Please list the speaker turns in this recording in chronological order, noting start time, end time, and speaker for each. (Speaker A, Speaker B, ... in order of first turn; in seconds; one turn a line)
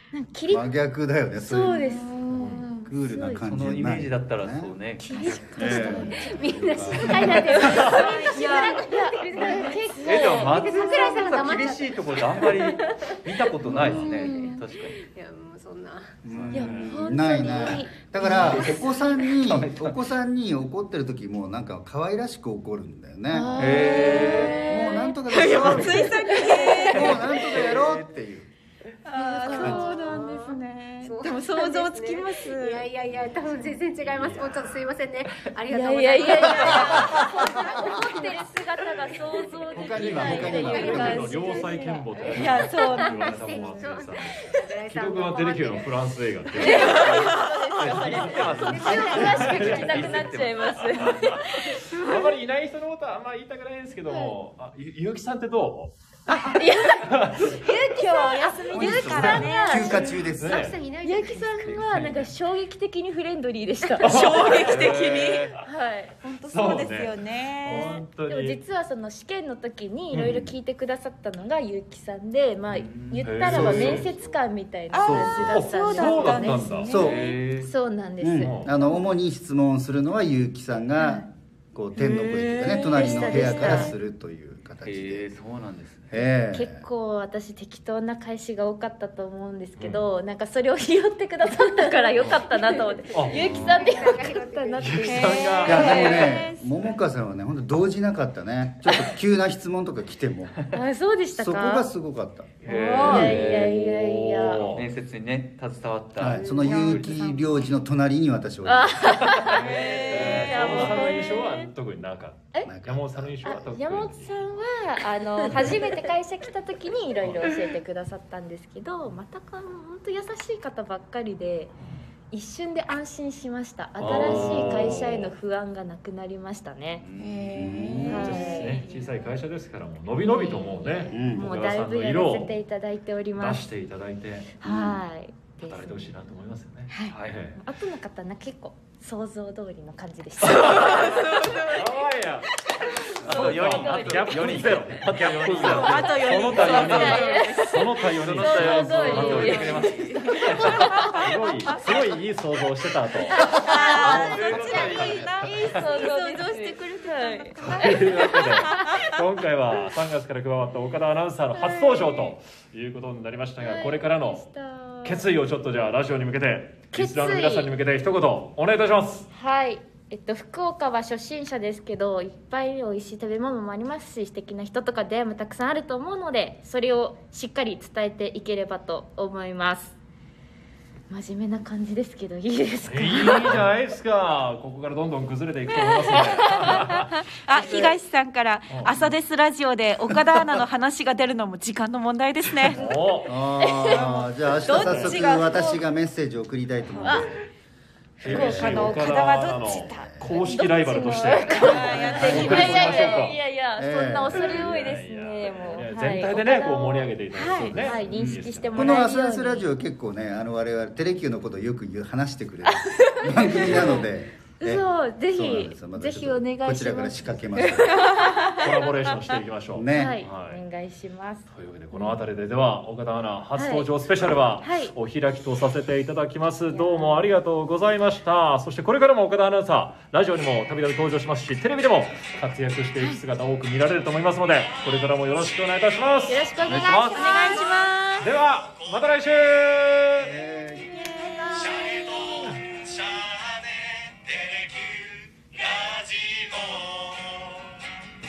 Speaker A: 0.1-0.7
Speaker B: 0.5-1.9
Speaker A: 1.4-3.5
Speaker C: 1.7-2.9
Speaker D: 2.3-2.6
Speaker B: 2.8-4.8
Speaker E: 3.4-6.1
Speaker A: 5.0-11.2
Speaker C: 5.0-6.3
Speaker B: 5.5-7.7
Speaker F: 5.7-13.1
Speaker C: 7.7-9.8
Speaker E: 10.0-15.0
Speaker B: 13.7-14.1
Speaker C: 13.9-14.6
Speaker F: 14.1-16.2
Speaker A: 14.2-14.6
Speaker B: 16.2-28.5
Speaker D: 16.3-17.0
Speaker A: 16.5-18.9
Speaker E: 18.3-20.0
Speaker A: 23.3-27.1
Speaker E: 23.6-24.6
Speaker C: 24.0-27.5
Speaker E: 26.8-28.1
Speaker C: 29.1-32.9
Speaker A: 29.1-30.5
Speaker F: 29.4-30.5
Speaker F: 31.0-50.1
Speaker D: 34.1-34.4
Speaker A: 35.7-42.1
Speaker B: 36.8-37.6
Speaker B: 39.7-41.3
Speaker D: 40.1-47.2
Speaker C: 42.3-43.7
Speaker A: 46.6-51.8
Speaker C: 46.8-47.4
Speaker E: 47.0-51.4
Speaker D: 47.9-50.3
Speaker D: 51.0-55.9
Speaker C: 51.9-52.3
Speaker A: 56.3-60.1
Speaker C: 56.3-56.7
Speaker D: 57.0-57.6
Speaker C: 57.4-60.3
Speaker B: 58.7-60.8
Speaker D: 59.0-59.5
Speaker F: 59.8-61.9
Speaker D: 60.4-60.8
Speaker A: 61.0-64.1
Speaker E: 61.7-62.1
Speaker D: 61.9-62.3
Speaker C: 63.9-65.6
Speaker D: 64.0-65.6
Speaker E: 64.7-65.5
Speaker A: 65.6-66.2
Speaker C: 66.2-68.0
Speaker D: 66.5-68.6
Speaker A: 67.7-76.7
Speaker B: 70.1-70.5
Speaker E: 72.7-73.3
Speaker D: 73.2-74.1
Speaker B: 73.4-74.4
Speaker C: 74.9-77.4
Speaker B: 75.0-75.6
Speaker D: 75.5-76.9
Speaker B: 76.9-77.2
Speaker E: 76.9-77.7
Speaker A: 77.6-78.6
Speaker B: 78.2-85.3
Speaker D: 78.4-78.7
Speaker C: 81.0-81.2
Speaker C: 82.0-84.0
Speaker A: 82.9-84.0
Speaker E: 84.8-86.2
Speaker B: 86.1-86.9
Speaker A: 86.5-96.3
Speaker D: 89.8-90.0
Speaker F: 91.8-95.8
Speaker D: 93.1-93.8
Speaker B: 93.5-93.8
Speaker D: 94.8-96.1
Speaker C: 95.0-96.9
Speaker B: 95.7-100.6
Speaker A: 100.7-101.9
Speaker B: 101.4-103.1
Speaker E: 102.6-103.8
Speaker C: 102.7-103.3
Speaker D: 102.9-104.9
Speaker A: 103.0-104.8
Speaker E: 104.7-107.0
Speaker B: 106.2-109.4
Speaker F: 106.4-106.8
Speaker C: 106.6-107.5
Speaker A: 108.7-111.7
Speaker E: 109.2-111.0
Speaker D: 109.5-114.4
Speaker C: 109.6-110.5
Speaker B: 112.7-113.6
Speaker A: 113.4-121.7
Speaker A: 122.3-127.0
Speaker E: 124.0-124.7
Speaker D: 124.0-125.4
Speaker E: 127.0-127.8
Speaker C: 127.2-129.4
Speaker B: 127.5-128.3
Speaker A: 128.1-128.9
Speaker D: 128.1-132.6
Speaker A: 130.2-133.6
Speaker C: 130.3-131.1
Speaker B: 131.1-131.5
Speaker D: 133.4-134.5
Speaker A: 134.6-136.1
Speaker B: 134.6-135.0
Speaker D: 135.6-137.6
Speaker C: 136.9-137.2
Speaker E: 137.1-137.4
Speaker A: 137.6-141.8
Speaker D: 140.5-142.5
Speaker C: 141.0-141.8
Speaker D: 143.1-149.9
Speaker A: 143.2-145.1
Speaker E: 143.2-147.3
Speaker C: 145.6-147.9
Speaker A: 145.7-151.2
Speaker E: 148.1-151.3
Speaker C: 149.6-151.7
Speaker D: 150.6-155.3
Speaker A: 153.3-157.6
Speaker C: 153.4-159.2
Speaker E: 153.9-155.8
Speaker D: 157.6-164.5
Speaker A: 158.7-159.0
Speaker C: 161.6-162.3
Speaker A: 163.6-165.4
Speaker D: 165.0-169.3
Speaker A: 166.9-167.7
Speaker A: 169.3-179.9
Speaker A: 181.1-183.6
Speaker D: 182.9-187.1
Speaker A: 186.1-186.7
Speaker C: 186.7-192.9
Speaker D: 188.7-189.1
Speaker D: 192.7-193.3
Speaker B: 193.2-197.4
Speaker A: 193.6-194.2
Speaker C: 194.6-195.8
Speaker D: 194.7-195.2
Speaker C: 196.9-197.3
Speaker D: 198.2-203.4
Speaker C: 198.2-200.2
Speaker B: 198.2-200.3
Speaker A: 200.3-207.1
Speaker C: 201.4-203.3
Speaker B: 202.2-202.7
Speaker B: 203.8-204.8
Speaker D: 204.3-209.0
Speaker C: 207.3-207.9
Speaker B: 207.6-207.8
Speaker A: 207.7-209.8
Speaker E: 208.1-208.4
Speaker B: 208.7-218.1
Speaker A: 212.7-214.1
Speaker A: 214.6-218.2
Speaker C: 218.1-218.6
Speaker D: 218.5-220.6
Speaker B: 219.7-220.2
Speaker A: 219.9-222.2
Speaker D: 221.5-236.5
Speaker A: 223.6-223.9
Speaker A: 224.6-224.9
Speaker A: 226.7-227.3
Speaker A: 236.3-238.3
Speaker E: 236.6-237.6
Speaker C: 237.1-238.2
Speaker D: 238.2-240.3
Speaker B: 240.2-241.2
Speaker C: 240.9-242.6
Speaker E: 241.5-247.8